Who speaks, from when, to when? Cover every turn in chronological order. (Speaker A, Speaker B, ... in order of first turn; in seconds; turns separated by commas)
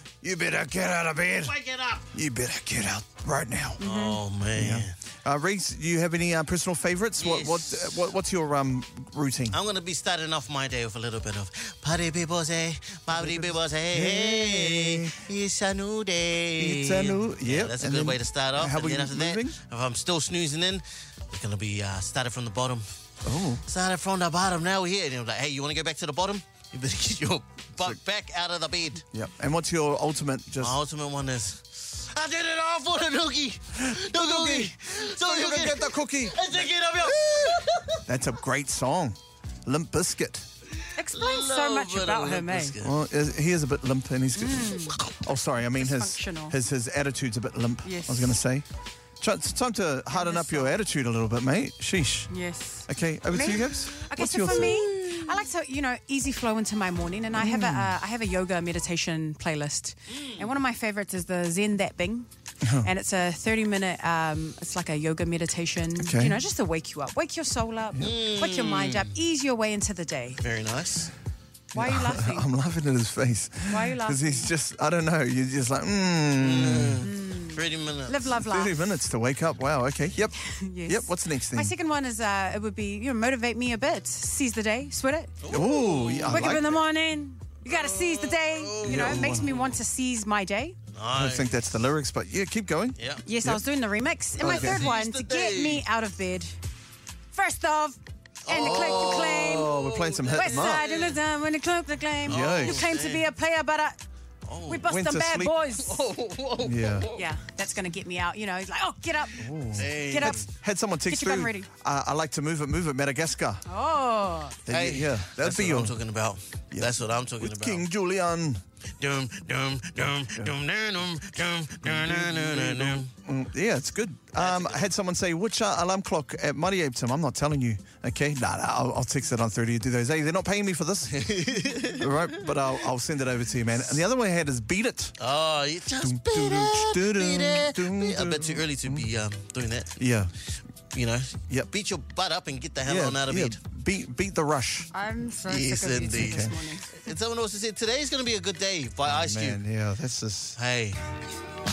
Speaker A: 0.2-1.5, Speaker B: 1.4-2.1, Speaker A: 2.1-3.8, Speaker C: 3.8-4.2, Speaker B: 3.8-4.9, Speaker A: 4.5-9.6, Speaker B: 7.2-8.1, Speaker B: 9.5-22.9, Speaker A: 13.1-15.2, Speaker A: 16.6-19.6, Speaker A: 23.2-23.6, Speaker B: 23.6-29.0, Speaker A: 29.1-30.8, Speaker B: 30.6-38.0, Speaker A: 33.8-40.5, Speaker B: 40.8-43.0, Speaker C: 40.9-42.7, Speaker A: 42.8-48.6, Speaker C: 44.4-45.0, Speaker C: 45.8-46.5, Speaker C: 47.8-48.4, Speaker A: 49.2-52.3, Speaker C: 50.1-50.7, Speaker C: 52.3-62.3, Speaker A: 52.9-54.8, Speaker B: 54.5-55.4, Speaker A: 57.3-57.9, Speaker B: 60.1-60.5, Speaker A: 62.6-62.9, Speaker C: 62.8-70.4, Speaker A: 66.0-66.4, Speaker B: 68.0-69.1, Speaker B: 70.4-71.1, Speaker A: 71.7-77.1, Speaker C: 71.7-72.5, Speaker C: 73.7-74.5, Speaker B: 76.4-78.3, Speaker C: 77.0-78.8, Speaker A: 78.4-80.3, Speaker C: 80.4-85.4, Speaker A: 80.9-81.7, Speaker B: 85.4-86.6, Speaker A: 85.5-86.8, Speaker C: 86.2-90.8, Speaker B: 87.7-89.8, Speaker A: 88.8-89.5, Speaker B: 90.9-91.5, Speaker A: 91.1-93.6, Speaker B: 93.0-93.2, Speaker C: 93.2-96.5, Speaker A: 94.4-94.9, Speaker B: 94.4-95.8, Speaker C: 97.3-99.7, Speaker B: 98.5-101.2, Speaker A: 98.5-100.8, Speaker C: 100.3-104.0, Speaker B: 102.2-103.3, Speaker A: 102.3-102.9, Speaker B: 104.4-104.9, Speaker C: 104.7-106.0, Speaker A: 104.8-105.5, Speaker B: 105.7-107.2, Speaker A: 106.6-107.1, Speaker C: 107.1-110.5, Speaker A: 109.4-113.6, Speaker B: 109.7-110.5, Speaker C: 111.0-111.7, Speaker C: 113.7-114.6, Speaker A: 114.7-116.0, Speaker B: 114.7-117.8, Speaker A: 116.7-118.6, Speaker B: 119.0-123.1, Speaker A: 121.8-131.2, Speaker B: 124.4-124.9, Speaker B: 131.1-132.5, Speaker A: 131.9-135.1, Speaker B: 135.2-139.9, Speaker A: 136.0-139.1, Speaker A: 140.0-140.3, Speaker B: 140.9-143.6, Speaker A: 142.8-144.9, Speaker C: 144.9-147.1, Speaker B: 145.5-149.6, Speaker A: 146.2-146.6, Speaker A: 149.0-150.6, Speaker B: 150.6-151.0